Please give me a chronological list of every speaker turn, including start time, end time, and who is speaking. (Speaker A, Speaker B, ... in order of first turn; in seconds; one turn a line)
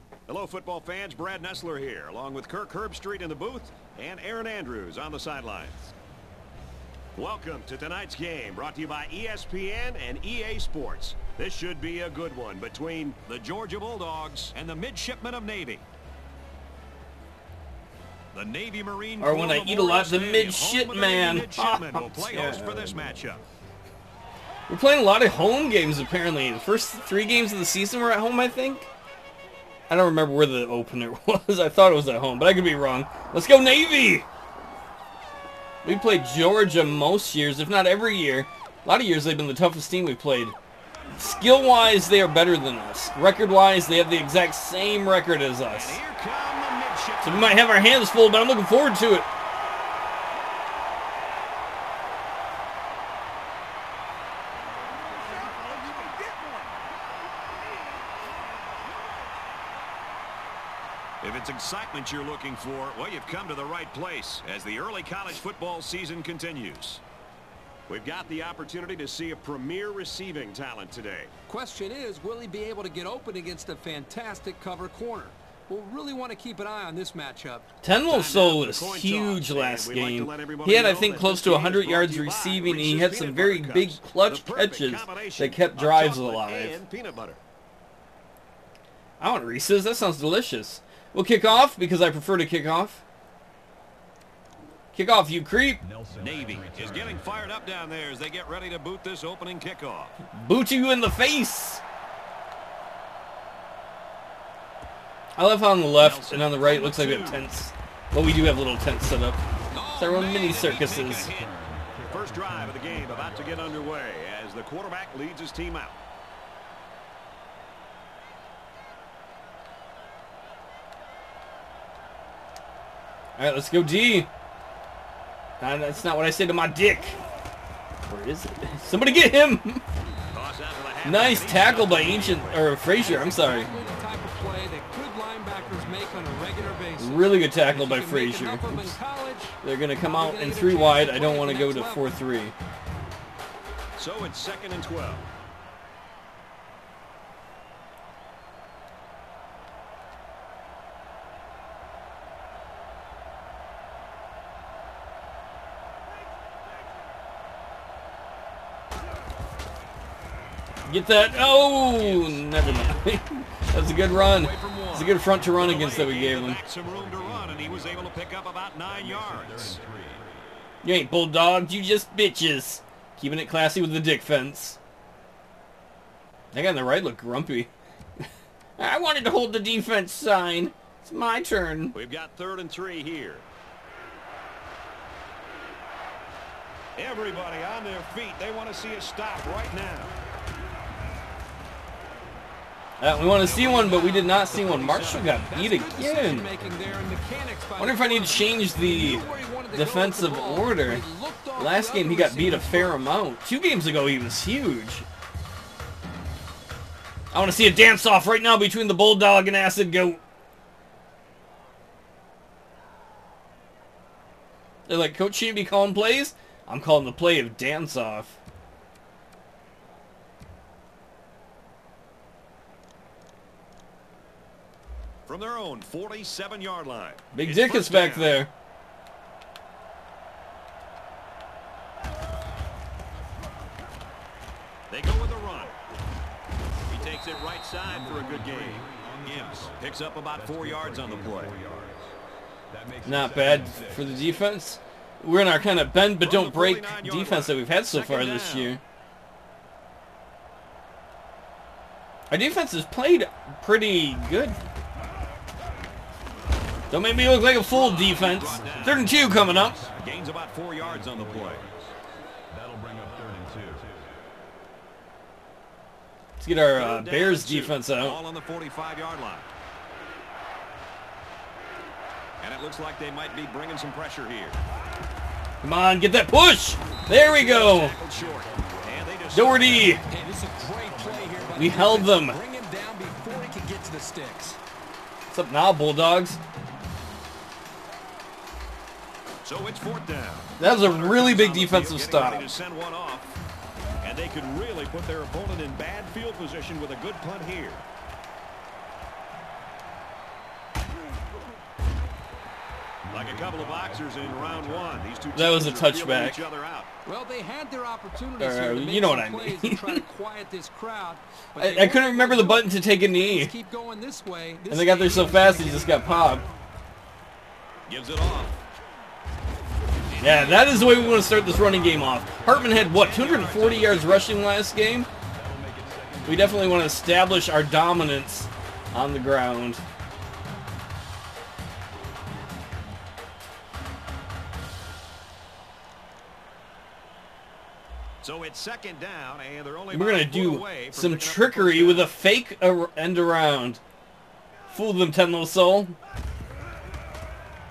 Speaker A: 0.3-5.9
Speaker A: 7.2-15.8
Speaker A: 18.3-23.4
Speaker B: 19.2-23.1
Speaker B: 24.7-28.9
Speaker B: 29.9-34.3
Speaker B: 35.8-40.6
Speaker B: 41.1-46.0
Speaker A: 45.7-47.6
Speaker B: 47.2-49.3
Speaker A: 61.2-67.0
Speaker A: 67.9-71.3
Speaker C: 71.5-77.7
Speaker B: 77.8-86.8
Speaker A: 78.1-87.4
Speaker B: 89.2-93.0
Speaker B: 94.9-95.8
Speaker D: 95.8-97.5
Speaker A: 96.2-100.2
Speaker B: 100.3-101.8
Speaker B: 105.4-109.4
Speaker A: 106.0-107.4
Speaker A: 109.7-111.5
Speaker B: 110.0-111.3
Speaker D: 111.2-114.0
Speaker A: 112.1-116.0
Speaker B: 123.4-124.3
Speaker B: 125.6-127.2
Speaker B: 128.1-129.8
Speaker A: 130.3-132.8
Speaker B: 131.0-133.7
Speaker C: 132.9-142.2
Speaker B: 137.0-139.0
Speaker B: 139.6-142.5
Speaker A: 144.0-145.3
Speaker B: 160.9-166.6
Speaker A: 161.9-163.0
Speaker A: 164.0-169.8
Speaker D: 165.3-168.3
Speaker D: 168.8-170.4
Speaker B: 170.8-174.8
Speaker B: 176.5-181.9
Speaker A: 181.9-183.5
Speaker A: 187.0-190.1
Speaker B: 193.0-196.5
Speaker C: 193.4-203.1
Speaker A: 194.6-195.4
Speaker B: 197.8-201.0
Speaker B: 201.6-205.1
Speaker B: 207.3-210.2
Speaker B: 214.9-218.4
Speaker A: 225.3-228.4
Speaker B: 227.3-228.5
Speaker A: 234.9-235.8
Speaker A: 236.9-241.6
Speaker D: 237.9-242.1
Speaker D: 242.7-244.4
Speaker B: 243.1-248.8
Speaker A: 246.2-248.8
Speaker B: 252.3-254.6
Speaker B: 256.9-259.9
Speaker A: 257.6-259.2
Speaker D: 258.1-260.2
Speaker A: 259.9-261.6
Speaker D: 260.8-261.9
Speaker D: 262.5-264.2
Speaker B: 266.4-268.2
Speaker A: 266.7-269.5
Speaker A: 272.4-274.6
Speaker B: 275.6-278.0
Speaker A: 277.0-280.0
Speaker D: 278.1-281.7
Speaker B: 279.3-280.0
Speaker C: 280.1-284.6
Speaker B: 281.6-282.4
Speaker B: 285.3-286.4
Speaker A: 289.4-293.4
Speaker B: 290.6-292.5
Speaker A: 294.0-297.8
Speaker D: 303.1-305.4
Speaker A: 303.1-306.9
Speaker B: 305.3-306.4
Speaker C: 307.1-316.5
Speaker B: 308.4-310.0
Speaker B: 311.6-313.5
Speaker B: 314.7-316.4
Speaker A: 317.9-318.6
Speaker A: 320.1-320.6
Speaker D: 320.2-324.2
Speaker B: 320.2-325.1
Speaker A: 322.5-324.4
Speaker D: 325.3-327.0
Speaker B: 326.2-329.8
Speaker A: 338.2-342.1
Speaker B: 339.9-343.8
Speaker B: 344.7-346.0